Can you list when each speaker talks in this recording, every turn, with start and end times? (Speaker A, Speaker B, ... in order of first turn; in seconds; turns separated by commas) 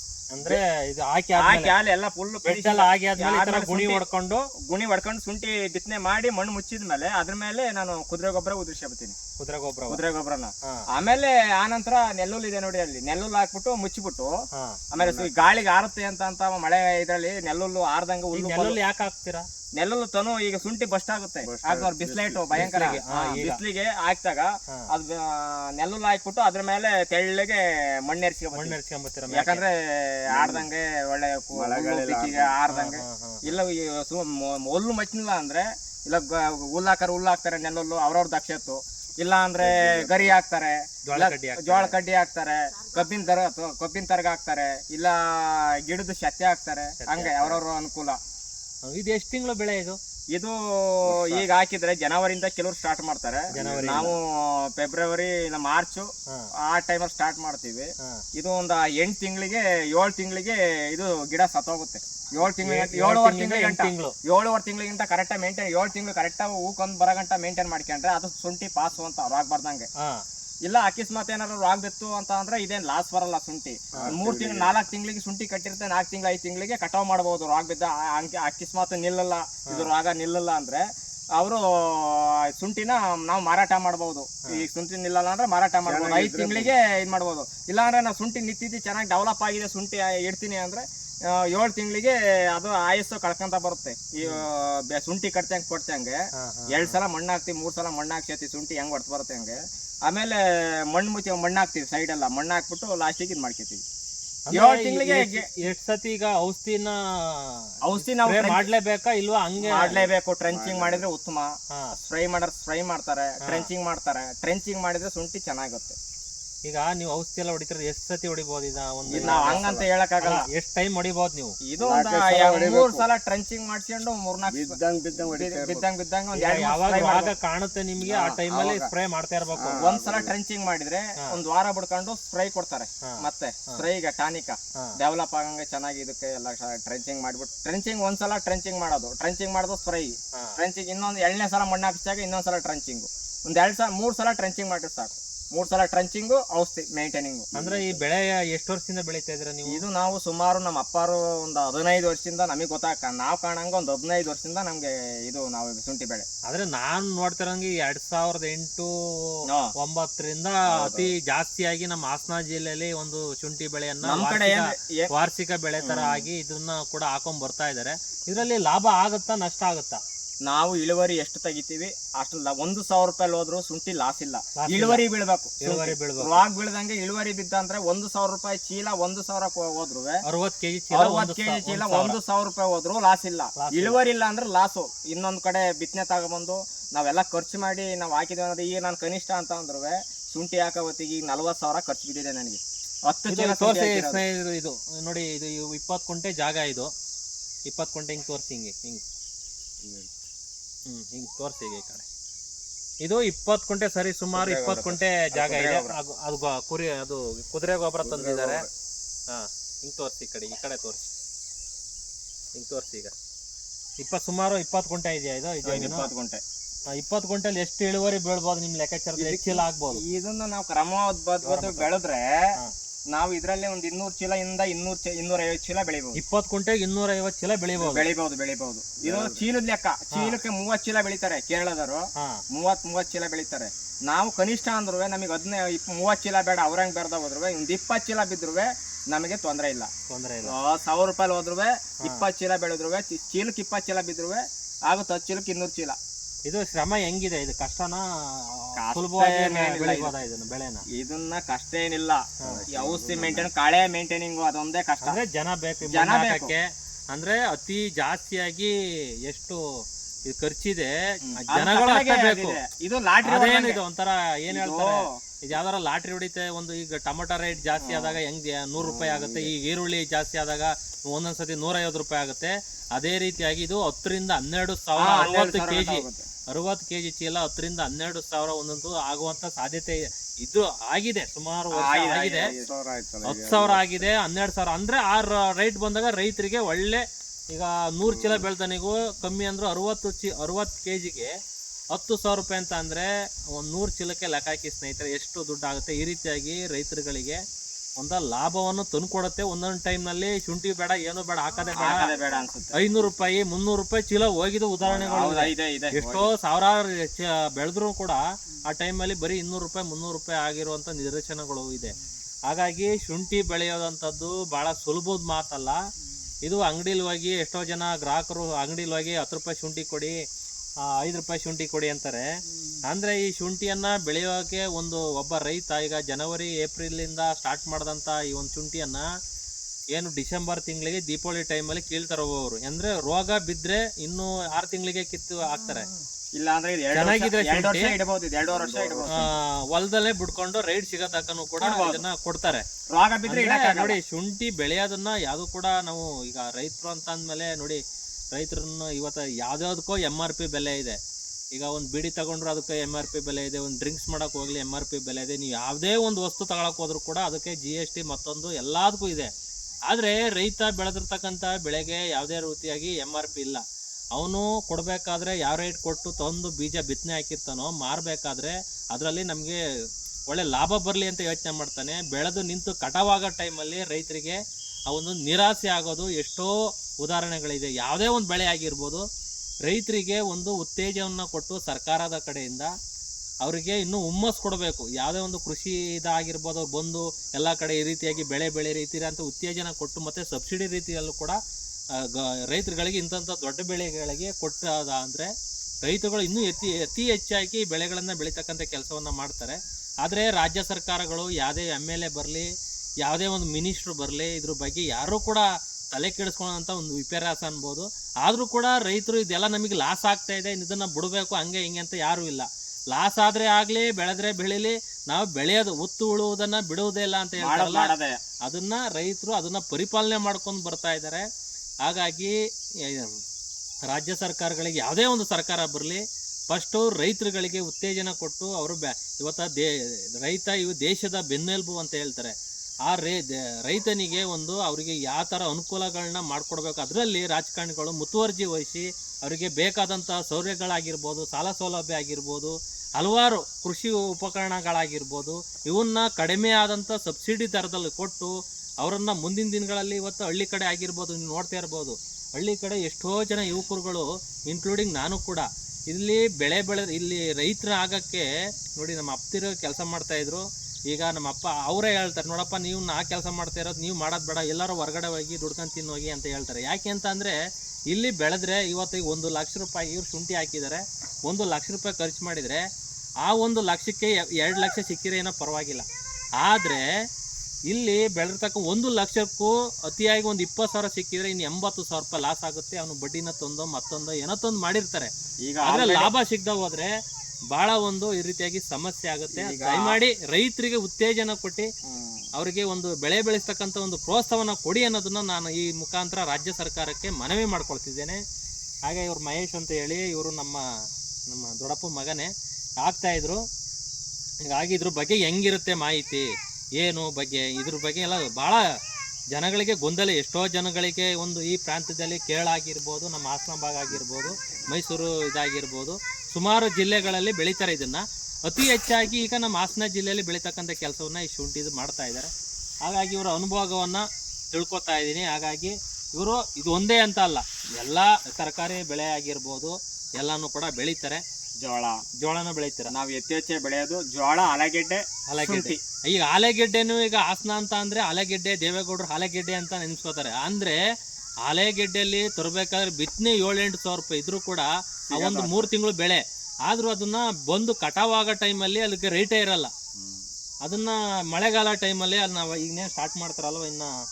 Speaker A: 0.3-1.7, Speaker B: 1.4-4.0, Speaker A: 2.5-4.5, Speaker B: 4.7-9.2, Speaker A: 9.4-10.0, Speaker B: 9.9-14.3, Speaker C: 14.9-15.4, Speaker B: 14.9-18.8, Speaker A: 18.3-19.4, Speaker B: 19.8-28.8, Speaker C: 21.4-23.0, Speaker A: 22.5-23.6, Speaker A: 28.5-29.6, Speaker B: 29.3-48.2, Speaker C: 30.3-30.6, Speaker C: 31.5-32.5, Speaker A: 32.7-33.4, Speaker C: 39.6-40.4, Speaker A: 41.0-41.9, Speaker A: 47.0-47.6, Speaker A: 48.8-50.0, Speaker B: 50.3-56.1, Speaker C: 51.0-51.5, Speaker A: 53.5-54.1, Speaker C: 53.5-54.1, Speaker B: 56.6-69.9, Speaker A: 62.4-64.1, Speaker B: 70.6-80.8, Speaker C: 74.0-74.8, Speaker B: 81.3-96.2, Speaker C: 85.8-86.7, Speaker A: 96.4-97.0, Speaker B: 96.7-103.8, Speaker A: 104.5-110.1, Speaker B: 104.5-105.5, Speaker B: 107.8-108.7, Speaker B: 109.6-116.0, Speaker C: 110.5-111.0, Speaker A: 113.4-113.7, Speaker A: 116.6-119.7, Speaker C: 119.1-119.9, Speaker B: 119.1-120.5, Speaker A: 120.2-121.5, Speaker B: 121.7-124.8, Speaker C: 121.8-123.1, Speaker C: 124.5-125.9, Speaker B: 125.3-127.3, Speaker A: 126.3-129.8, Speaker C: 128.0-128.9, Speaker C: 129.6-130.3, Speaker B: 129.8-147.5, Speaker A: 133.0-133.8, Speaker C: 147.5-148.0, Speaker A: 147.5-149.8, Speaker B: 149.7-156.2, Speaker A: 156.5-170.0, Speaker B: 159.5-159.7, Speaker B: 160.7-161.1, Speaker B: 164.0-165.1, Speaker B: 165.8-166.3, Speaker B: 170.4-180.2, Speaker A: 174.5-175.0, Speaker A: 175.6-176.4, Speaker A: 180.2-182.2, Speaker B: 180.9-194.2, Speaker A: 183.6-184.0, Speaker A: 193.3-196.9, Speaker A: 197.7-199.0, Speaker C: 199.8-200.1, Speaker A: 200.9-202.0, Speaker A: 203.0-208.6, Speaker B: 204.3-205.9, Speaker C: 208.0-208.7, Speaker A: 209.3-211.1, Speaker A: 212.5-213.1, Speaker A: 214.0-216.1, Speaker B: 215.6-216.4, Speaker A: 216.9-220.0, Speaker B: 219.2-222.2, Speaker A: 221.4-221.9, Speaker B: 223.1-226.2, Speaker A: 226.1-228.1, Speaker B: 227.8-239.9, Speaker C: 229.0-229.4, Speaker A: 230.1-230.4, Speaker A: 232.2-232.4, Speaker A: 240.1-240.5, Speaker B: 240.5-246.0, Speaker A: 246.4-250.8, Speaker B: 248.8-250.1, Speaker B: 250.9-255.2, Speaker C: 252.4-253.5, Speaker A: 255.0-258.7, Speaker B: 255.9-256.5, Speaker A: 259.2-259.6, Speaker A: 260.3-262.6, Speaker B: 261.3-263.8, Speaker A: 263.2-282.5, Speaker B: 264.5-265.2, Speaker B: 267.8-268.2, Speaker C: 268.8-269.5, Speaker B: 275.0-276.2, Speaker B: 281.7-282.7, Speaker C: 282.5-284.1, Speaker A: 283.2-291.3, Speaker C: 288.0-288.4, Speaker A: 291.9-297.4, Speaker A: 298.0-302.1, Speaker B: 301.7-302.8, Speaker A: 302.7-311.9, Speaker B: 304.8-306.3, Speaker A: 312.5-315.8, Speaker A: 316.4-320.1, Speaker A: 320.9-322.2, Speaker A: 322.8-329.0, Speaker A: 329.9-335.9, Speaker B: 336.3-339.3, Speaker A: 336.9-337.9, Speaker C: 338.5-339.3, Speaker A: 339.1-342.6, Speaker B: 341.6-342.0, Speaker B: 342.9-344.0, Speaker A: 343.3-347.8, Speaker A: 348.3-351.0, Speaker A: 351.5-359.3, Speaker A: 359.9-363.6, Speaker A: 364.1-369.6, Speaker A: 370.3-374.4, Speaker A: 374.9-379.0, Speaker A: 379.6-382.7, Speaker A: 383.4-391.4, Speaker A: 391.9-395.3, Speaker A: 395.8-402.5, Speaker A: 403.0-417.9, Speaker B: 417.4-418.2, Speaker A: 418.4-421.2, Speaker A: 421.8-423.2, Speaker A: 423.9-432.3, Speaker A: 432.8-467.4, Speaker A: 467.9-472.6, Speaker A: 473.2-475.9, Speaker A: 476.4-476.8, Speaker A: 477.7-485.1, Speaker B: 485.4-486.1, Speaker A: 485.6-486.9, Speaker A: 487.5-491.6, Speaker B: 489.3-490.0, Speaker B: 491.8-492.3, Speaker A: 492.3-498.2, Speaker A: 498.9-500.6, Speaker A: 501.3-502.3, Speaker A: 502.8-503.4, Speaker A: 504.4-506.2, Speaker A: 506.8-508.6, Speaker A: 509.3-522.3, Speaker A: 522.8-531.2, Speaker B: 531.6-532.0, Speaker A: 532.2-532.9, Speaker B: 532.9-535.8, Speaker A: 535.3-540.8, Speaker A: 541.4-549.7, Speaker B: 545.1-545.7, Speaker A: 550.6-553.9